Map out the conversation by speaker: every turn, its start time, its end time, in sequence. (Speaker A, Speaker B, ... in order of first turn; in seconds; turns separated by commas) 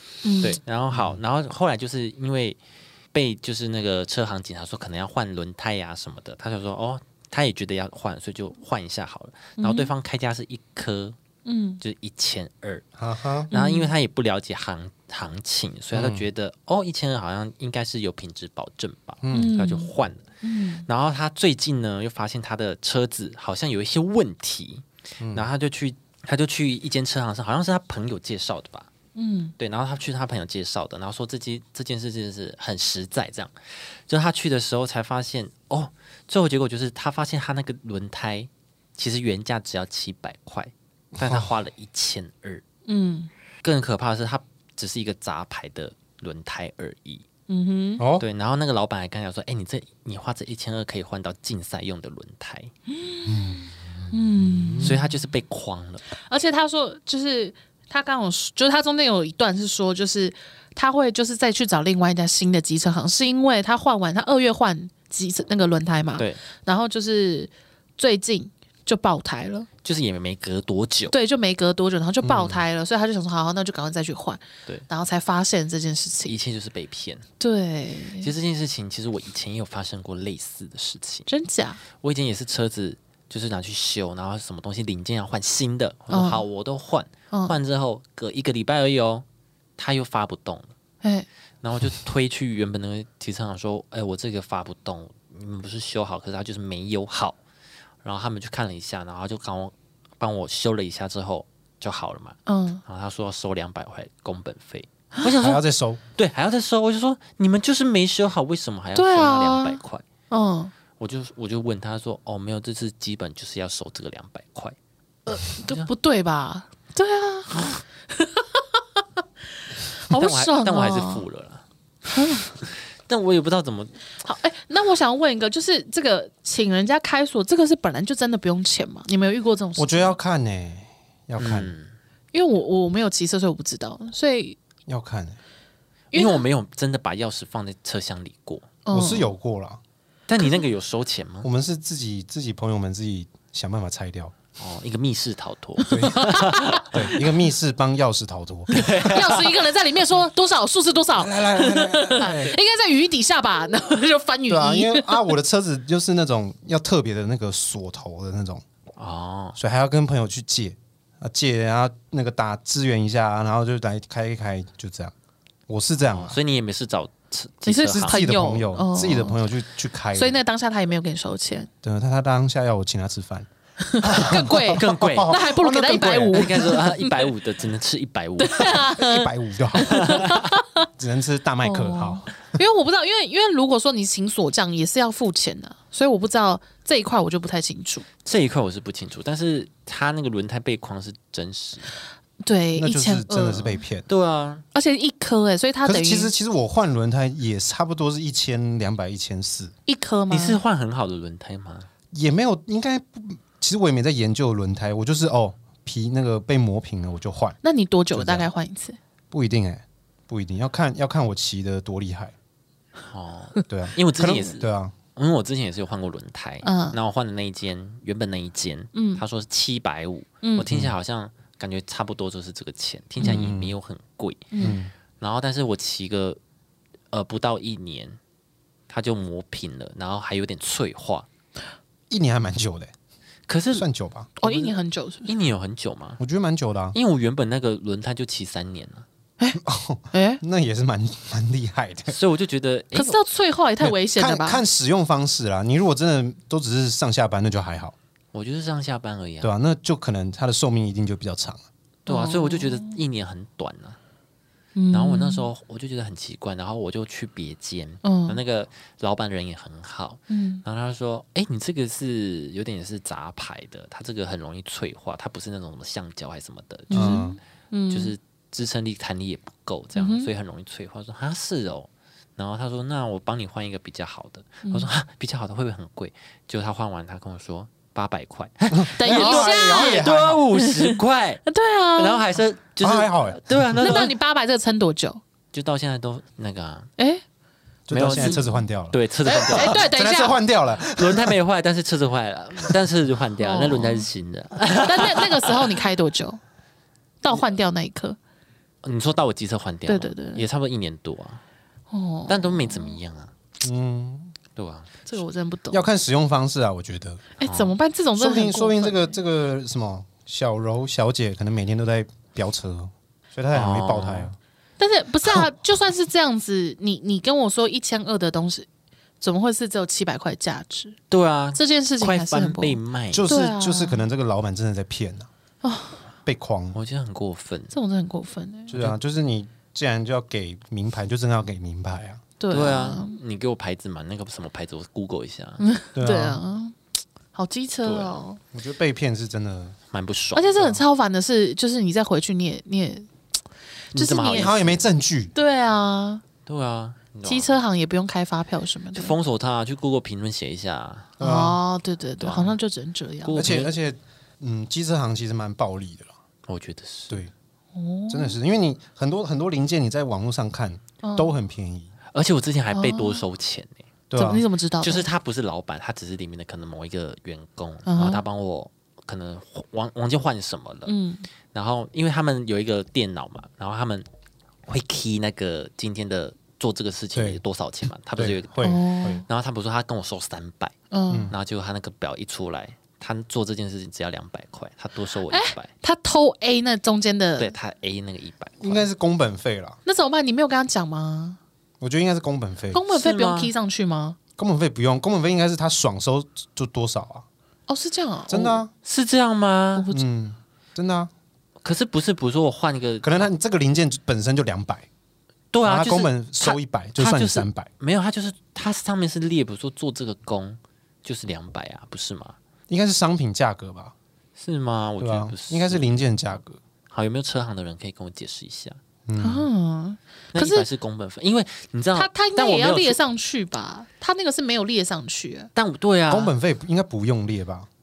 Speaker A: 0.2-0.6, Speaker B: 0.4-2.6, Speaker C: 0.9-1.2, Speaker B: 3.1-11.2, Speaker A: 9.6-9.9, Speaker A: 11.4-11.8, Speaker B: 11.8-12.8, Speaker C: 13.0-13.5, Speaker B: 13.5-20.2, Speaker A: 13.5-13.9, Speaker C: 15.9-16.2, Speaker C: 19.2-19.6, Speaker A: 19.3-19.9, Speaker A: 20.4-20.9, Speaker B: 20.9-28.9, Speaker C: 25.2-25.5, Speaker A: 29.2-29.5, Speaker B: 29.6-42.6, Speaker C: 41.2-41.5, Speaker A: 42.9-43.3, Speaker B: 43.6-47.2, Speaker A: 47.5-48.0, Speaker C: 48.0-48.2, Speaker B: 48.2-52.7, Speaker A: 52.9-54.9, Speaker C: 53.3-55.0, Speaker B: 54.8-56.0, Speaker A: 56.2-69.7, Speaker B: 69.8-71.2, Speaker A: 71.1-76.3, Speaker C: 72.2-72.6, Speaker B: 76.3-77.3, Speaker A: 77.4-78.3, Speaker B: 78.2-81.3, Speaker A: 81.3-81.8, Speaker B: 82.0-89.2, Speaker A: 86.1-86.5, Speaker A: 87.3-87.6, Speaker B: 89.8-90.7, Speaker B: 91.6-97.4, Speaker B: 98.0-105.6, Speaker A: 102.5-102.8, Speaker A: 105.2-105.5, Speaker C: 105.4-106.0, Speaker B: 106.2-110.0, Speaker A: 109.0-109.8, Speaker A: 110.3-110.7, Speaker B: 111.0-114.8, Speaker A: 115.3-119.0, Speaker A: 119.9-121.2, Speaker B: 120.1-121.6, Speaker A: 122.1-122.6, Speaker B: 123.1-124.0, Speaker A: 124.2-130.2, Speaker C: 129.8-131.7, Speaker B: 131.4-131.9, Speaker A: 132.3-134.6, Speaker C: 134.9-135.4, Speaker A: 136.1-136.4, Speaker B: 136.1-138.8, Speaker A: 138.8-139.3, Speaker C: 138.9-139.8, Speaker B: 140.3-141.5, Speaker A: 140.4-140.7, Speaker C: 141.4-144.3, Speaker B: 144.6-146.9, Speaker A: 145.8-147.2, Speaker C: 145.9-149.2, Speaker B: 148.7-149.5, Speaker A: 149.1-155.2, Speaker C: 151.2-152.6, Speaker C: 154.5-158.6, Speaker B: 159.0-159.6, Speaker C: 159.6-165.1, Speaker C: 165.7-166.4, Speaker B: 166.0-168.2, Speaker A: 167.6-169.4, Speaker C: 167.8-170.4, Speaker A: 170.1-171.7, Speaker C: 171.8-173.5, Speaker A: 173.9-177.3, Speaker B: 174.1-175.4, Speaker C: 174.1-176.8, Speaker B: 176.3-178.8, Speaker A: 178.4-180.9, Speaker C: 178.8-180.3, Speaker B: 179.9-180.4, Speaker C: 181.0-182.3, Speaker A: 181.6-188.1, Speaker B: 188.2-192.0, Speaker A: 192.4-193.8, Speaker C: 192.8-194.1, Speaker B: 194.1-194.6, Speaker A: 194.7-196.3, Speaker C: 195.9-199.7, Speaker A: 199.9-200.6, Speaker B: 200.3-201.9, Speaker C: 202.1-207.6, Speaker A: 207.6-209.0, Speaker C: 208.1-208.5, Speaker C: 209.3-212.3, Speaker B: 213.0-224.5, Speaker C: 213.7-214.9, Speaker A: 216.6-217.0, Speaker A: 218.9-219.2, Speaker C: 220.7-220.9, Speaker C: 223.2-223.7, Speaker A: 224.5-224.8, Speaker C: 224.6-224.9, Speaker B: 225.2-226.4, Speaker B: 227.1-228.2, Speaker B: 228.9-231.3, Speaker C: 232.1-232.9, Speaker B: 233.5-233.9, Speaker C: 233.7-234.3, Speaker B: 234.4-236.2, Speaker A: 234.4-235.3, Speaker C: 236.2-237.0, Speaker B: 236.9-239.1, Speaker C: 239.6-242.2, Speaker A: 240.1-240.4, Speaker B: 242.1-243.2, Speaker A: 242.9-244.6, Speaker C: 243.8-247.9, Speaker B: 248.3-249.5, Speaker C: 249.4-251.6, Speaker A: 252.1-253.0, Speaker B: 252.1-254.0, Speaker A: 254.8-255.5, Speaker B: 254.9-267.3, Speaker A: 258.0-258.4, Speaker A: 260.3-260.6, Speaker A: 266.9-268.1, Speaker C: 266.9-267.4, Speaker B: 267.9-284.1, Speaker A: 269.9-270.3, Speaker C: 278.7-280.4, Speaker A: 279.0-282.2, Speaker C: 282.8-284.0, Speaker A: 283.8-285.2, Speaker B: 285.5-286.9, Speaker A: 287.0-287.2, Speaker C: 287.9-291.4, Speaker B: 287.9-289.9, Speaker A: 288.1-288.6, Speaker A: 289.2-290.4, Speaker B: 290.8-295.8, Speaker A: 293.4-294.1, Speaker A: 294.8-296.4, Speaker A: 297.2-298.2, Speaker B: 298.8-301.4, Speaker A: 299.9-300.4, Speaker A: 301.9-303.0, Speaker B: 302.3-303.3, Speaker C: 303.6-304.4, Speaker B: 304.6-304.9, Speaker A: 305.1-305.9, Speaker C: 305.7-307.2, Speaker A: 307.4-309.1, Speaker B: 307.5-307.7, Speaker C: 308.2-314.4, Speaker B: 313.5-314.3, Speaker A: 314.8-318.7, Speaker A: 319.2-321.0, Speaker B: 321.1-323.3, Speaker A: 321.6-324.0, Speaker C: 323.1-325.3, Speaker A: 325.6-326.0, Speaker C: 326.3-326.8, Speaker B: 326.8-327.7, Speaker A: 327.7-328.8, Speaker C: 328.7-332.2, Speaker A: 332.4-333.2, Speaker B: 332.5-335.6, Speaker A: 335.6-336.8, Speaker C: 335.9-336.4, Speaker A: 337.3-338.4, Speaker B: 337.9-338.2, Speaker C: 338.5-339.8, Speaker B: 339.9-340.6, Speaker A: 340.4-343.1, Speaker C: 340.6-340.8, Speaker A: 343.9-344.5, Speaker B: 343.9-344.9, Speaker C: 344.3-345.3, Speaker A: 345.4-346.2, Speaker B: 346.5-347.5, Speaker A: 347.2-349.2, Speaker B: 348.9-351.2, Speaker C: 351.2-351.6, Speaker A: 351.2-353.5, Speaker B: 352.2-352.6, Speaker B: 353.2-353.7, Speaker C: 353.3-356.1, Speaker B: 356.5-357.2, Speaker A: 357.8-358.4, Speaker C: 358.1-361.9, Speaker A: 361.0-361.3, Speaker B: 362.1-363.9, Speaker A: 362.7-363.2, Speaker C: 364.1-364.4, Speaker A: 364.1-365.1, Speaker B: 364.8-370.9, Speaker A: 367.9-368.2, Speaker A: 370.9-371.2, Speaker B: 371.5-374.1, Speaker B: 374.7-380.8, Speaker C: 377.1-377.4, Speaker C: 378.2-379.2, Speaker A: 378.6-379.2, Speaker A: 380.9-381.3, Speaker C: 381.1-381.4, Speaker B: 381.3-385.7, Speaker A: 385.3-387.5, Speaker B: 387.4-388.9, Speaker C: 388.6-389.8, Speaker A: 389.9-391.4, Speaker C: 391.8-392.8, Speaker A: 392.7-394.2, Speaker B: 392.9-393.5, Speaker C: 394.4-397.3, Speaker A: 397.7-398.6, Speaker C: 398.3-398.7, Speaker B: 398.8-399.9, Speaker A: 399.8-400.0, Speaker C: 399.9-401.1, Speaker B: 401.6-403.2, Speaker C: 403.0-404.9, Speaker B: 405.5-412.4, Speaker C: 405.6-407.7, Speaker C: 412.7-413.9, Speaker B: 414.4-416.0, Speaker C: 415.0-416.6, Speaker B: 416.9-418.8, Speaker C: 419.1-419.5, Speaker A: 419.2-420.7, Speaker B: 420.3-423.0, Speaker A: 421.9-425.5, Speaker B: 425.6-426.4, Speaker C: 426.1-427.7